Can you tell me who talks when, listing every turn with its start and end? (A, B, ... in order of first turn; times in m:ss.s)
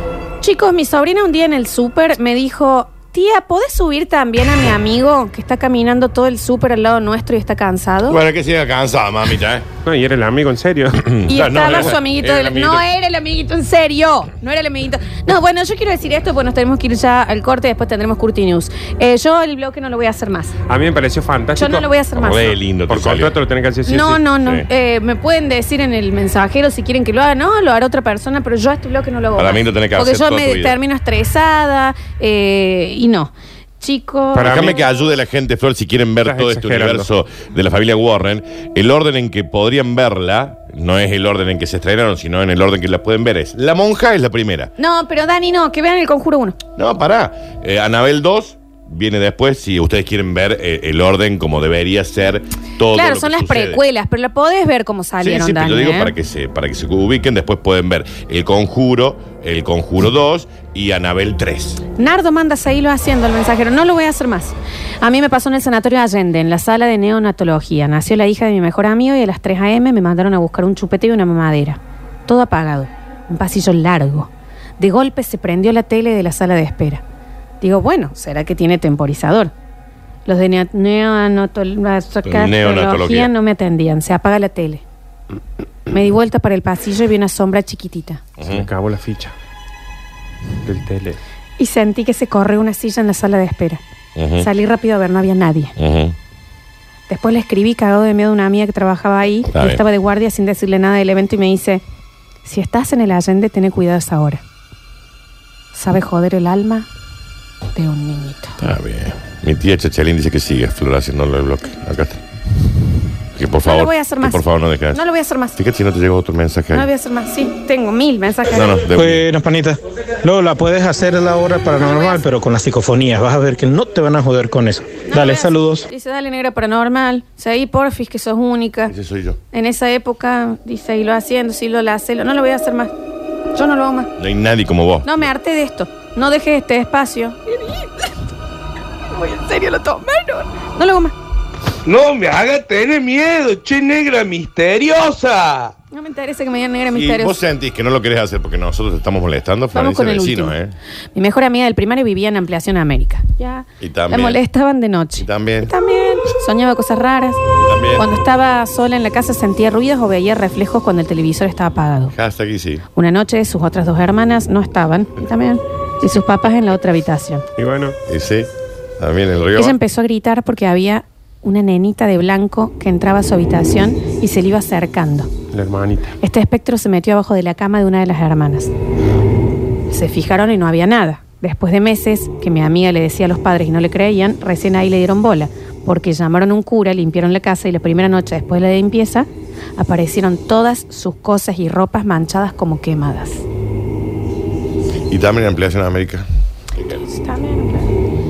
0:00.4-0:08.2 A
0:08.1-0:09.7 B
0:09.8-0:11.9 C
0:11.0-0:12.9 B
0:11.3-0:20.6 A
0:20.7-0:21.9 C
0:21.6-0:22.6 A
0:22.2-0:23.4 B
0:22.9-0:24.2 C
0:23.9-0:34.8 A
0:24.4-0:24.7 B
0:29.4-0:30.8 B
0:34.3-0:34.8 C
0:34.4-0:44.7 B
0:36.2-0:37.1 C
0:44.8-0:46.6 A
0:46.8-0:53.8 B
0:52.9-0:56.1 A
0:55.2-1:01.8 B
1:02.0-1:17.0 A
1:17.6-1:19.5 A
1:20.3-1:24.8 A
1:22.2-1:23.3 B
1:25.9-1:28.2 A
1:28.4-1:28.7 B
1:28.4-1:29.3 C
1:30.6-1:31.2 C
1:31.6-1:33.8 A
1:34.2-1:34.5 B
1:34.4-1:35.7 A
1:35.8-1:36.2 B
1:37.1-1:41.8 A
1:39.5-1:39.8 B
1:42.4-1:44.4 A
1:45.7-1:46.9 A
1:47.8-1:48.6 A
1:48.6-1:52.2 B
1:53.4-1:55.0 B
1:53.6-1:55.6 A
1:55.6-1:56.9 B
1:56.7-1:58.8 A
1:58.5-1:59.2 B
1:59.0-2:05.8 D
2:01.7-2:02.3 A
2:05.1-2:08.9 A
2:08.9-2:09.4 B
2:09.5-2:12.9 A
2:13.6-2:14.1 A
2:14.2-2:15.2 B
2:15.0-2:18.1 A
2:19.1-2:21.2 A
2:21.9-2:25.7 E
2:25.9-2:27.4 A
2:26.9-2:30.7 B
2:29.7-2:30.6 A
2:31.2-2:37.4 A
2:33.8-2:34.4 B
2:35.2-2:35.7 B
2:37.6-2:38.1 B
2:38.0-2:42.1 A
2:42.1-2:42.8 B
2:43.0-2:47.4 A
2:47.6-2:48.0 C
2:48.1-2:49.8 B
2:49.6-2:55.3 A
2:55.5-2:56.2 C
2:56.2-2:58.7 A
2:59.9-3:13.4 A
3:15.1-3:16.2 B
3:17.0-3:17.9 A